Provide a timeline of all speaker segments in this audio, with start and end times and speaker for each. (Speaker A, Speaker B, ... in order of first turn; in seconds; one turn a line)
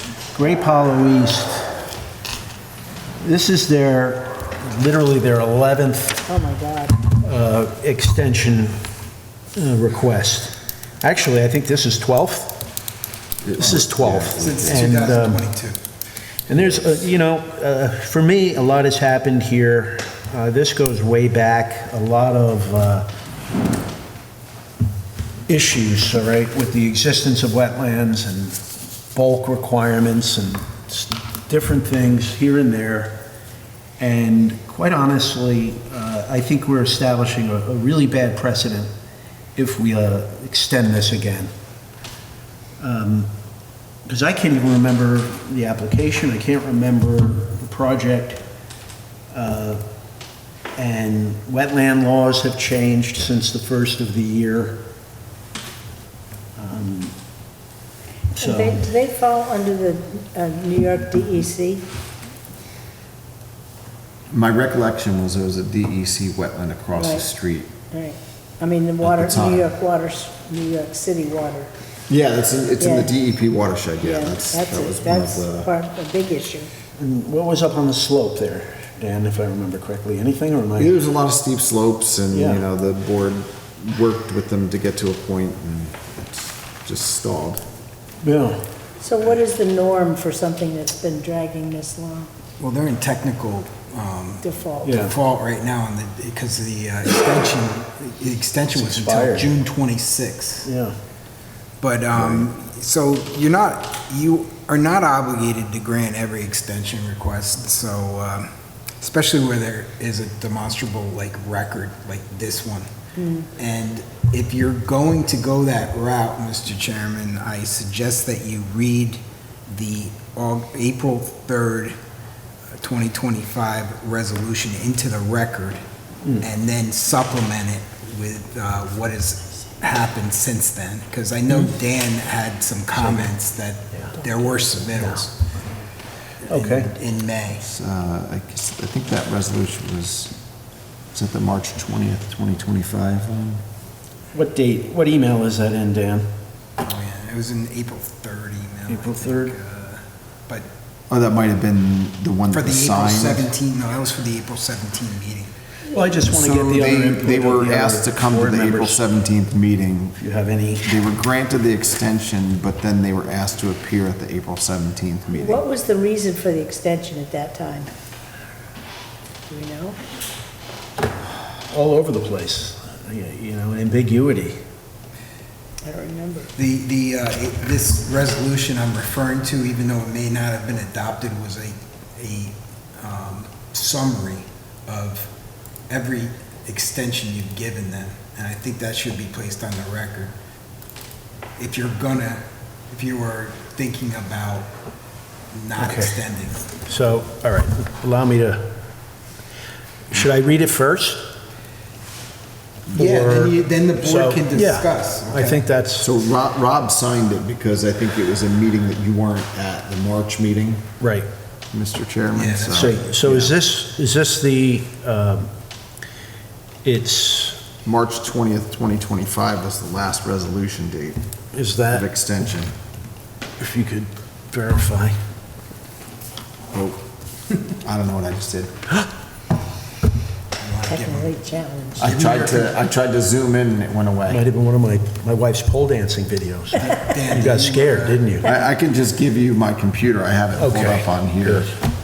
Speaker A: 0.3-1.8
Speaker A: 3.2-6.3
Speaker B: 6.3-7.0
Speaker A: 7.0-8.8
Speaker A: 9.5-12.6
Speaker C: 13.4-14.7
Speaker A: 13.6-15.4
Speaker D: 14.4-15.8
Speaker A: 16.5-23.1
Speaker A: 25.5-28.6
Speaker A: 29.1-33.2
Speaker A: 34.0-38.9
Speaker A: 39.6-41.5
Speaker A: 42.8-43.3
Speaker A: 44.0-48.5
Speaker A: 49.3-49.8
Speaker A: 50.8-54.8
Speaker A: 56.6-57.1
Speaker B: 58.4-61.9
Speaker A: 58.4-58.9
Speaker C: 64.3-67.7
Speaker B: 67.0-67.2
Speaker B: 67.9-71.7
Speaker C: 69.0-69.7
Speaker C: 72.1-75.7
Speaker B: 72.8-73.1
Speaker B: 74.0-76.7
Speaker A: 77.0-81.0
Speaker C: 80.8-87.6
Speaker A: 82.3-82.6
Speaker A: 88.2-88.6
Speaker B: 89.0-92.3
Speaker D: 92.6-100.7
Speaker B: 94.4-95.0
Speaker A: 94.8-95.1
Speaker A: 98.7-99.5
Speaker A: 100.6-101.0
Speaker D: 101.8-112.9
Speaker B: 113.2-113.5
Speaker D: 113.6-122.0
Speaker D: 122.8-125.8
Speaker D: 126.4-135.4
Speaker A: 132.9-133.3
Speaker A: 134.9-135.3
Speaker D: 136.5-137.6
Speaker A: 136.5-136.9
Speaker C: 137.6-140.3
Speaker C: 141.1-143.6
Speaker A: 144.3-146.3
Speaker D: 146.8-150.7
Speaker A: 148.9-149.6
Speaker C: 151.1-153.5
Speaker D: 152.5-155.5
Speaker A: 155.9-159.0
Speaker C: 156.3-160.2
Speaker A: 160.2-161.0
Speaker C: 160.8-165.6
Speaker B: 165.3-167.9
Speaker B: 169.5-170.0
Speaker A: 171.7-174.6
Speaker B: 175.9-176.5
Speaker D: 176.6-185.3
Speaker D: 185.9-190.3
Speaker D: 191.6-194.7
Speaker D: 195.5-196.7
Speaker A: 195.8-196.2
Speaker A: 196.8-198.7
Speaker A: 200.1-201.3
Speaker D: 202.9-205.6
Speaker A: 202.9-206.1
Speaker C: 206.0-210.8
Speaker A: 211.0-211.3
Speaker C: 211.7-213.0
Speaker D: 212.3-213.5
Speaker A: 212.8-215.5
Speaker A: 216.8-217.7
Speaker C: 217.8-221.2
Speaker A: 221.5-222.1
Speaker C: 221.9-222.7
Speaker A: 223.6-225.2
Speaker C: 226.7-227.0
Speaker C: 227.8-228.7
Speaker D: 230.6-231.3
Speaker B: 230.9-232.6
Speaker C: 232.0-234.4
Speaker D: 232.0-232.7
Speaker A: 234.3-238.5
Speaker D: 236.8-238.3
Speaker C: 238.4-241.7
Speaker A: 240.6-241.8